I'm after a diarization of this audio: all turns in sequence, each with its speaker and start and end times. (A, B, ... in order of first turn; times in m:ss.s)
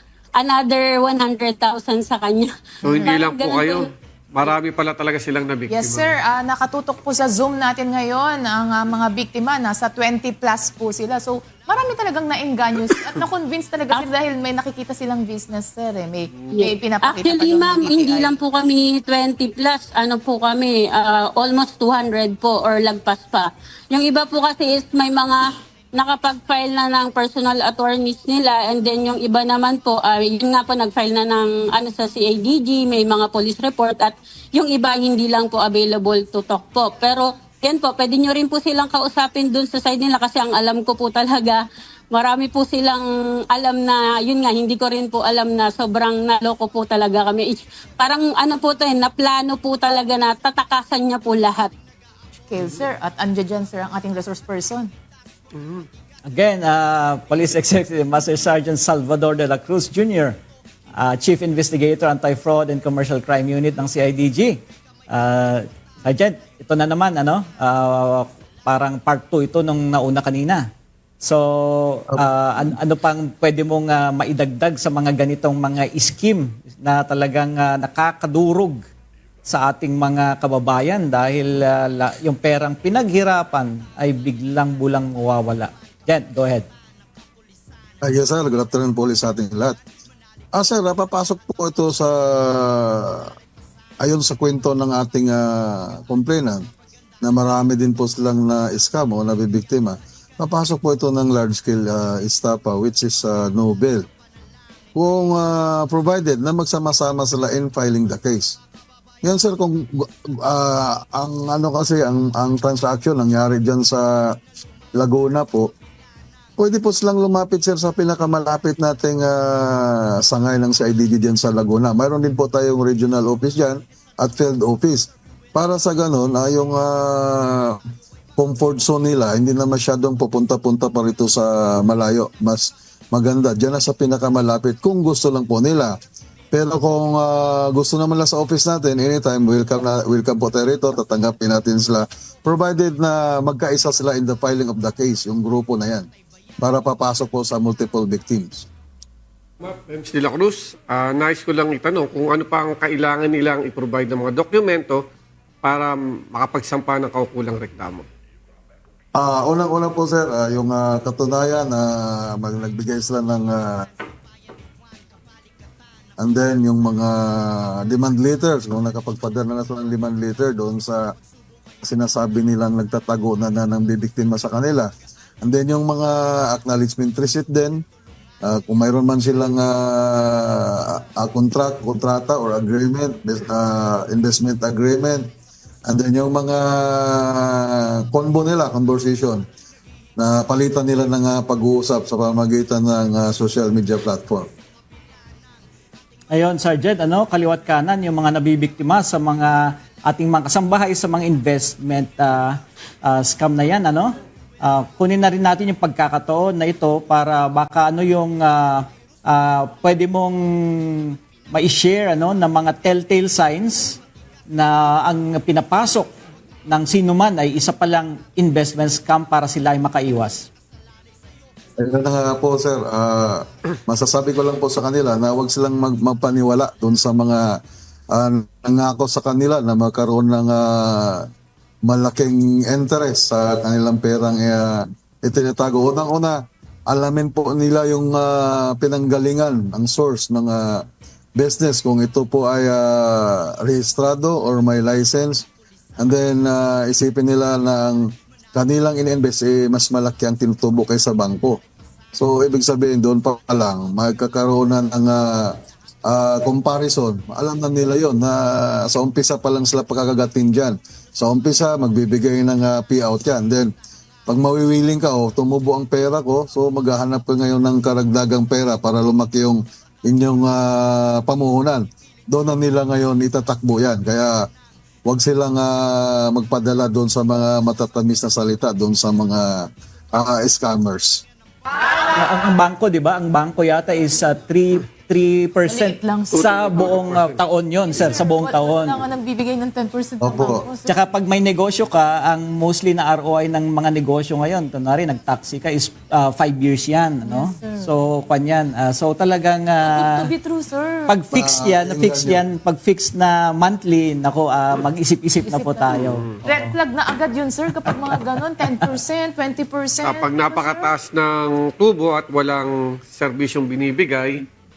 0:00.4-0:03.8 A
0:02.8-0:06.2 B
0:05.7-0:18.3 C
0:16.5-0:51.7 A
0:52.5-0:54.9 C
0:55.5-0:55.9 B
0:56.3-1:00.4 D
1:01.0-1:10.7 D
1:11.2-1:18.8 D
1:19.4-1:26.7 D
1:28.0-1:29.8 E
1:30.5-1:33.3 E
1:34.0-1:36.7 E
1:37.2-1:44.0 E
1:44.9-1:48.6 E
1:49.2-1:54.3 E
1:55.0-1:55.7 E
1:56.6-2:07.8 E
2:08.4-2:16.0 E
2:16.5-2:26.1 E
2:26.6-2:28.6 E
2:29.6-2:35.0 B
2:35.6-2:38.0 B
2:39.1-2:43.8 E
2:46.2-2:51.1 E
2:51.8-2:54.9 E
2:55.4-2:57.8 E
2:58.4-3:05.3 E
3:05.8-3:09.4 E
3:10.2-3:14.5 E
3:16.3-3:34.0 D
3:34.5-3:36.1 D
3:36.7-3:40.5 D
3:41.8-3:47.6 E
3:48.1-3:51.2 E
3:51.8-4:00.8 E
4:01.4-4:05.5 E
4:06.0-4:11.6 E
4:12.1-4:23.7 E
4:24.3-4:34.4 E
4:35.0-4:41.2 E
4:42.1-4:49.0 D
4:45.7-4:46.6 C
4:46.3-4:47.4 B
4:47.9-4:51.0 C
4:50.2-4:50.6 E
4:50.8-5:00.3 D
4:57.2-4:57.9 C
4:59.8-5:01.2 C
5:01.1-5:06.8 D
5:01.3-5:02.4 E
5:05.4-5:10.9 C
5:07.8-5:08.8 D
5:10.0-5:14.4 B